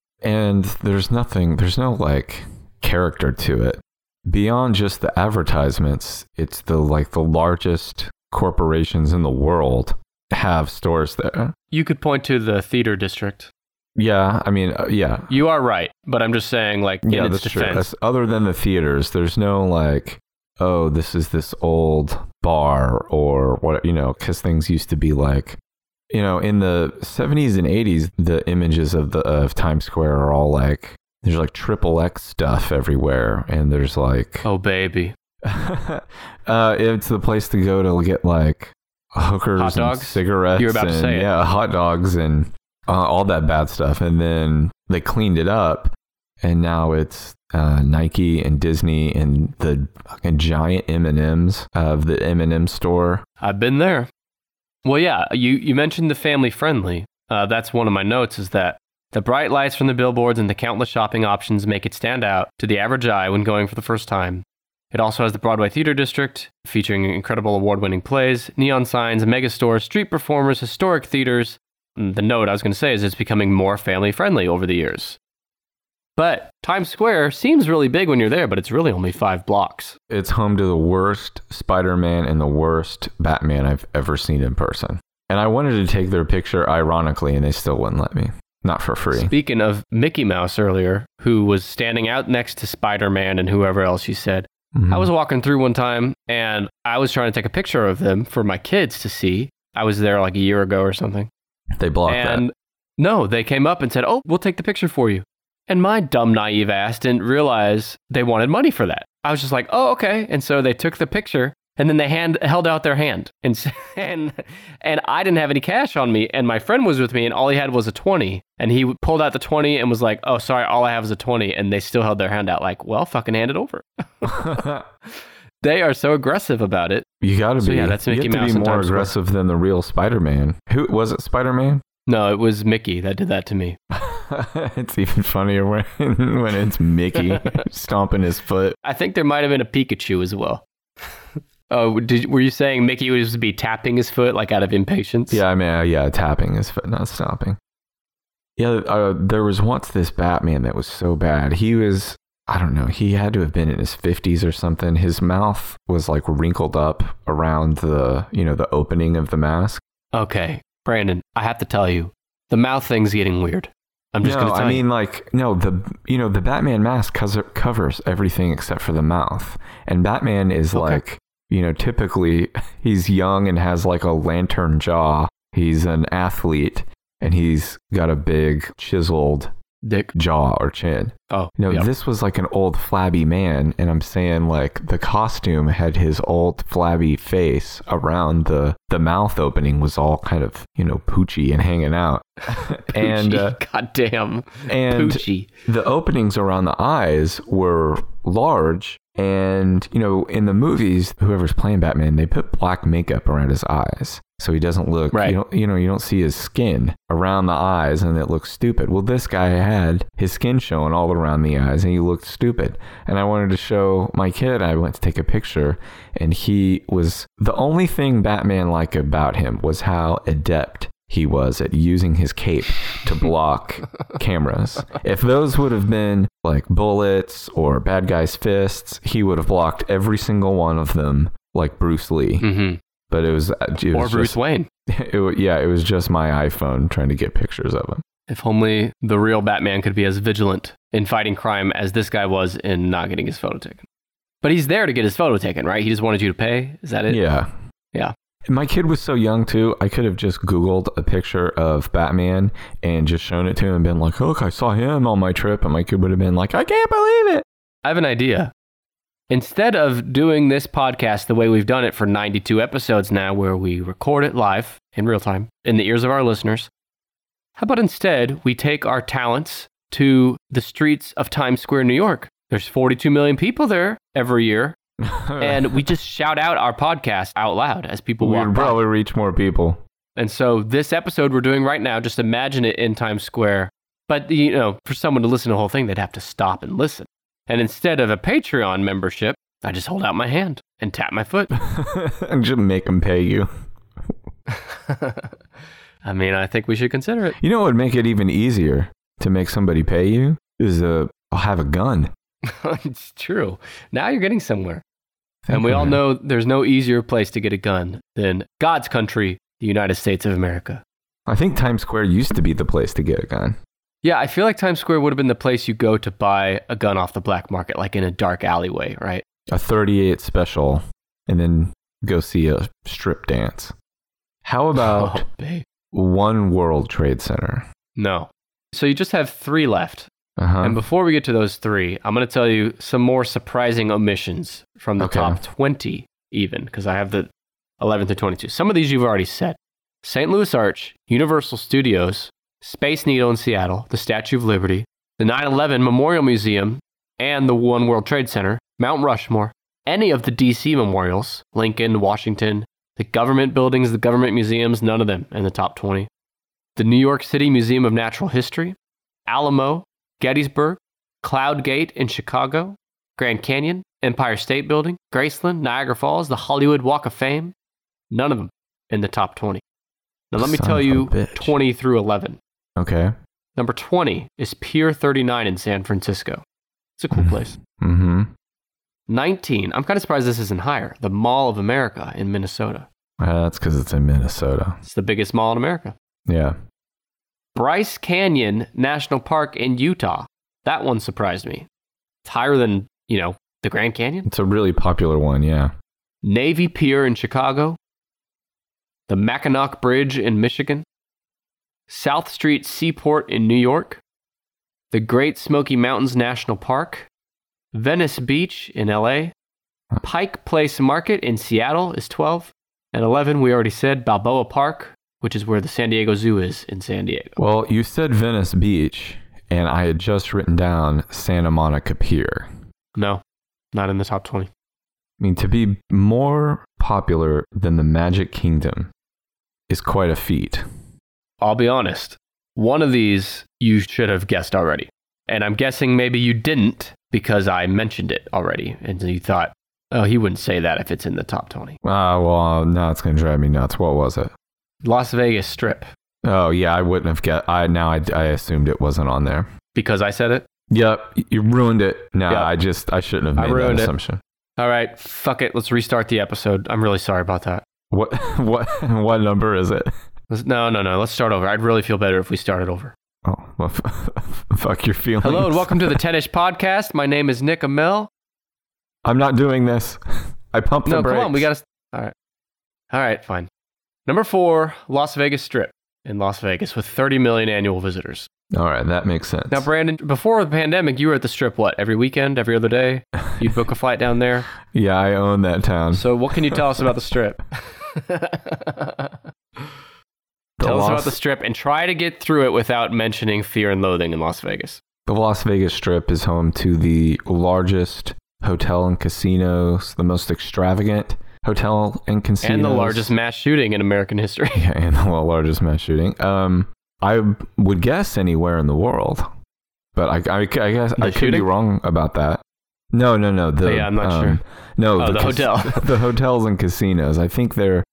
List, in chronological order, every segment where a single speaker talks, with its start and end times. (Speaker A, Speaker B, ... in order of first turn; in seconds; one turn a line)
Speaker A: 0.2-11.5
Speaker B: 11.7-13.5
Speaker A: 14.0-15.3
Speaker B: 15.3-17.9
Speaker A: 17.0-25.6
Speaker A: 26.1-34.5
Speaker B: 34.4-35.1
Speaker A: 35.4-53.2
Speaker B: 39.6-41.3
Speaker B: 53.4-54.1
Speaker B: 54.9-75.2
Speaker B: 76.2-80.0
Speaker A: 80.1-89.3
Speaker B: 89.1-101.3
Speaker A: 94.8-95.1
Speaker A: 101.8-102.4
Speaker B: 102.1-124.7
Speaker A: 124.2-124.8
Speaker B: 125.6-127.1
Speaker A: 127.2-131.8
Speaker B: 127.6-129.1
Speaker B: 132.1-133.8
Speaker A: 133.9-138.8
Speaker B: 137.2-137.4
Speaker B: 138.8-140.7
Speaker B: 141.7-145.4
Speaker A: 145.3-147.6
Speaker A: 148.6-159.8
Speaker B: 160.1-164.8
Speaker A: 164.2-179.5
Speaker B: 170.7-171.0
Speaker B: 179.8-180.1
Speaker A: 180.1-193.6
Speaker B: 181.3-181.9
Speaker B: 192.6-195.5
Speaker A: 194.7-232.4
Speaker B: 232.4-232.8
Speaker A: 233.1-234.4
Speaker B: 233.9-234.7
Speaker A: 234.9-238.0
Speaker B: 238.3-243.8
Speaker B: 244.4-247.2
Speaker A: 247.1-247.5
Speaker A: 248.5-257.4
Speaker B: 257.9-258.5
Speaker B: 259.3-266.7
Speaker B: 267.6-274.8
Speaker A: 275.0-275.9
Speaker B: 275.4-278.8
Speaker A: 278.2-279.8
Speaker B: 280.2-291.5
Speaker A: 291.6-293.5
Speaker B: 294.5-295.3
Speaker B: 296.0-297.4
Speaker A: 297.4-302.1
Speaker B: 302.4-304.8
Speaker A: 305.5-306.0
Speaker B: 305.5-310.8
Speaker A: 311.3-313.6
Speaker B: 314.0-319.2
Speaker A: 319.5-323.7
Speaker A: 324.4-325.2
Speaker B: 324.8-325.6
Speaker A: 325.9-327.7
Speaker B: 328.0-330.1
Speaker A: 330.4-330.8
Speaker B: 330.6-356.1
Speaker A: 335.0-335.4
Speaker B: 356.8-358.8
Speaker B: 359.3-367.6
Speaker B: 368.1-369.6
Speaker B: 370.3-372.4
Speaker A: 370.4-371.6
Speaker A: 372.8-373.1
Speaker B: 373.6-376.4
Speaker B: 377.0-377.6
Speaker A: 377.1-378.3
Speaker B: 379.1-382.9
Speaker A: 383.2-384.8
Speaker B: 384.8-385.9
Speaker A: 386.3-386.6
Speaker B: 387.6-391.7
Speaker B: 392.2-394.3
Speaker A: 394.3-395.7
Speaker B: 396.2-397.8
Speaker B: 399.1-400.9
Speaker B: 401.9-404.0
Speaker B: 404.9-407.1
Speaker B: 407.7-409.3
Speaker B: 410.0-417.4
Speaker A: 417.4-422.5
Speaker B: 422.9-423.2
Speaker B: 423.7-424.5
Speaker A: 425.2-428.9
Speaker A: 429.7-430.6
Speaker B: 431.4-441.8
Speaker A: 441.8-444.3
Speaker B: 444.8-445.9
Speaker A: 446.2-449.5
Speaker B: 449.8-450.4
Speaker A: 450.7-454.2
Speaker B: 453.4-453.9
Speaker B: 454.6-457.6
Speaker A: 457.9-459.9
Speaker B: 460.3-462.9
Speaker A: 463.2-466.0
Speaker B: 465.2-468.1
Speaker A: 469.0-471.5
Speaker B: 470.9-472.1
Speaker B: 472.9-473.5
Speaker B: 474.1-478.3
Speaker A: 478.5-479.7
Speaker B: 479.5-484.5
Speaker A: 484.7-486.9
Speaker B: 485.9-489.7
Speaker A: 490.6-491.2
Speaker B: 490.6-494.8
Speaker A: 495.1-503.1
Speaker B: 502.4-504.6
Speaker A: 504.5-509.3
Speaker A: 509.9-512.4
Speaker B: 511.0-511.5
Speaker A: 512.9-517.9
Speaker B: 513.6-514.4
Speaker B: 515.0-515.9